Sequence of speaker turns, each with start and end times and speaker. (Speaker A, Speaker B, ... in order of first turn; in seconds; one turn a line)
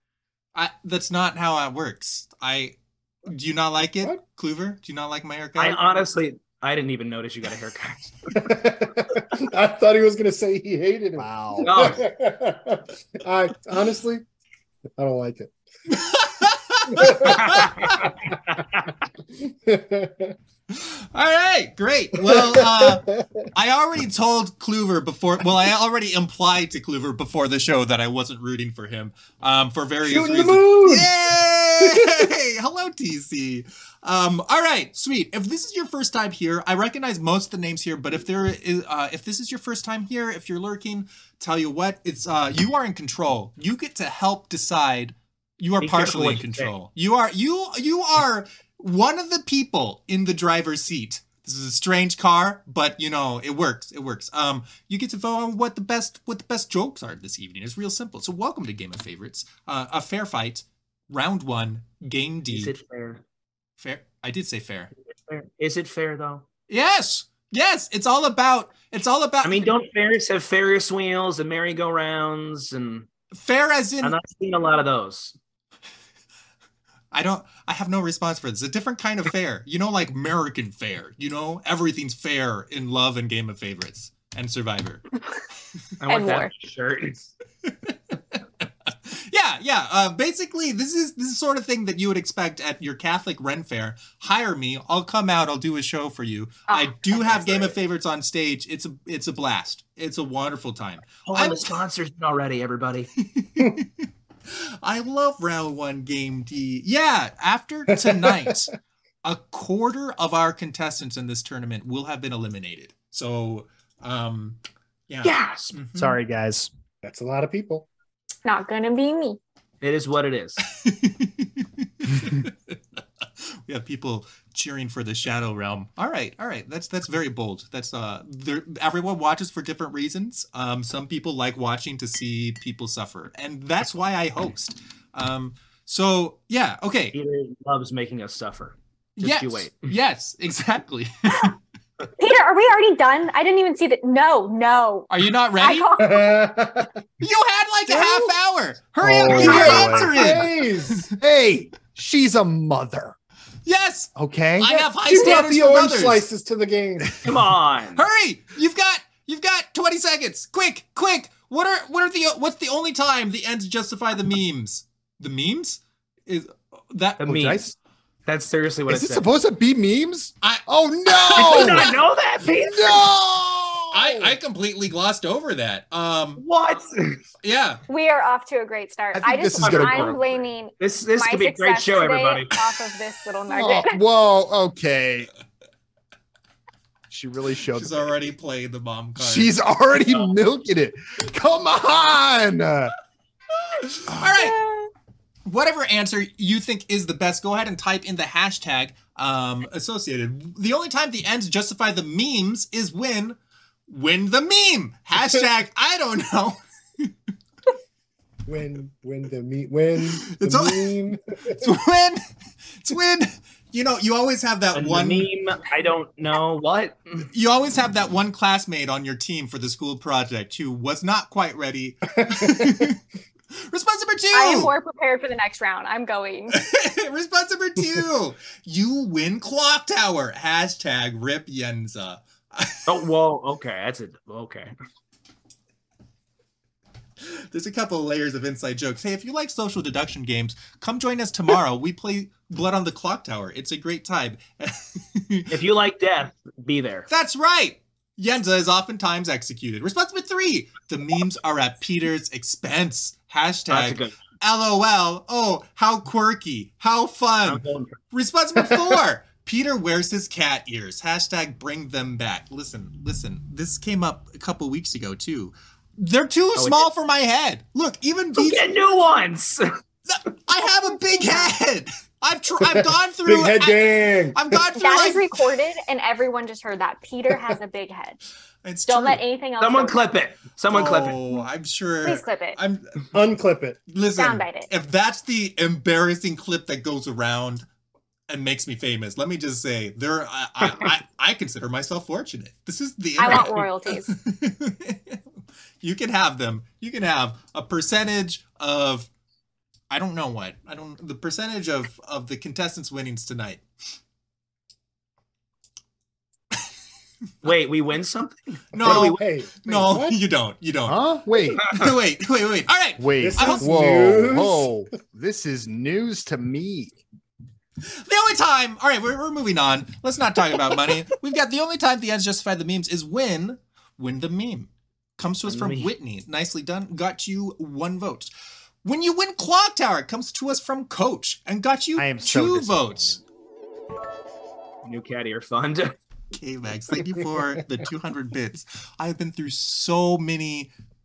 Speaker A: 0.5-2.7
Speaker A: 3.2-5.8
Speaker B: 5.5-8.1
Speaker C: 8.3-14.2
Speaker D: 11.2-11.9
Speaker B: 11.6-12.0
Speaker C: 15.0-15.5
Speaker A: 15.9-18.1
Speaker C: 16.9-17.4
Speaker B: 17.2-18.6
Speaker C: 19.4-20.4
Speaker A: 20.7-62.7
Speaker C: 22.2-23.3
Speaker C: 30.0-31.1
Speaker C: 31.8-32.2
Speaker B: 45.8-46.7
Speaker B: 62.5-63.2
Speaker A: 63.8-64.9
Speaker B: 65.1-66.5
Speaker A: 66.7-69.6
Speaker B: 69.4-73.1
Speaker A: 73.3-74.2
Speaker B: 74.0-75.3
Speaker A: 77.1-85.0
Speaker B: 86.0-87.3
Speaker E: 86.1-86.5
Speaker A: 87.6-101.8
Speaker E: 96.7-97.7
Speaker B: 101.3-103.1
Speaker A: 103.2-108.7
Speaker C: 107.9-108.5
Speaker A: 109.2-114.6
Speaker A: 115.1-116.2
Speaker B: 115.2-115.7
Speaker D: 116.0-116.7
Speaker C: 117.0-117.9
Speaker E: 118.4-119.4
Speaker B: 119.8-120.6
Speaker A: 120.7-122.8
Speaker A: 123.4-137.2
Speaker B: 137.1-139.8
Speaker A: 139.2-141.5
Speaker E: 142.2-146.4
Speaker A: 145.1-145.9
Speaker C: 146.0-146.9
Speaker A: 147.2-151.1
Speaker C: 147.9-148.3
Speaker D: 149.0-150.4
Speaker C: 149.3-151.1
Speaker B: 149.3-150.0
Speaker D: 151.2-153.1
Speaker A: 153.7-156.2
Speaker D: 154.1-154.8
Speaker C: 155.1-157.2
Speaker B: 157.2-158.0
Speaker A: 157.9-167.3
Speaker B: 167.2-167.6
Speaker D: 167.3-167.7
Speaker B: 168.2-169.2
Speaker D: 168.9-171.9
Speaker A: 170.4-171.9
Speaker B: 171.3-173.1
Speaker D: 172.6-174.3
Speaker A: 173.9-176.4
Speaker B: 176.4-177.2
Speaker A: 177.4-177.8
Speaker E: 177.9-184.0
Speaker D: 179.1-180.4
Speaker B: 179.6-180.2
Speaker B: 180.8-182.7
Speaker D: 183.5-185.3
Speaker D: 187.1-188.3
Speaker A: 187.7-189.6
Speaker D: 189.2-192.9
Speaker A: 193.7-194.6
Speaker D: 194.1-194.3
Speaker A: 195.4-203.4
Speaker A: 203.9-207.1
Speaker C: 208.4-211.6
Speaker A: 210.2-210.9
Speaker A: 211.6-212.2
Speaker A: 212.8-215.3
Speaker B: 214.7-217.3
Speaker A: 217.3-223.0
Speaker C: 222.2-222.9
Speaker A: 223.5-224.7
Speaker E: 224.3-226.6
Speaker A: 226.5-232.8
Speaker B: 232.9-234.7
Speaker A: 237.2-245.5
Speaker B: 245.5-247.1
Speaker A: 247.1-268.6
Speaker B: 253.7-254.2
Speaker B: 257.4-258.0
Speaker B: 266.6-266.9
Speaker B: 268.3-269.7
Speaker A: 270.1-275.4
Speaker C: 272.6-274.6
Speaker E: 274.8-278.2
Speaker A: 278.6-279.2
Speaker E: 278.9-280.1
Speaker B: 279.6-281.2
Speaker A: 280.7-283.0
Speaker E: 282.0-282.6
Speaker C: 283.1-283.8
Speaker A: 283.9-287.6
Speaker E: 284.1-284.7
Speaker A: 288.3-295.2
Speaker E: 293.2-294.1
Speaker A: 295.8-299.1
Speaker A: 299.9-303.6
Speaker B: 307.4-309.2
Speaker A: 308.7-311.0
Speaker C: 308.8-310.2
Speaker D: 310.9-311.7
Speaker A: 311.6-313.7
Speaker D: 313.0-317.0
Speaker C: 313.2-314.7
Speaker A: 317.8-328.3
Speaker B: 325.4-325.9
Speaker A: 328.8-333.2
Speaker D: 331.9-333.2
Speaker B: 334.8-335.9
Speaker A: 336.3-340.7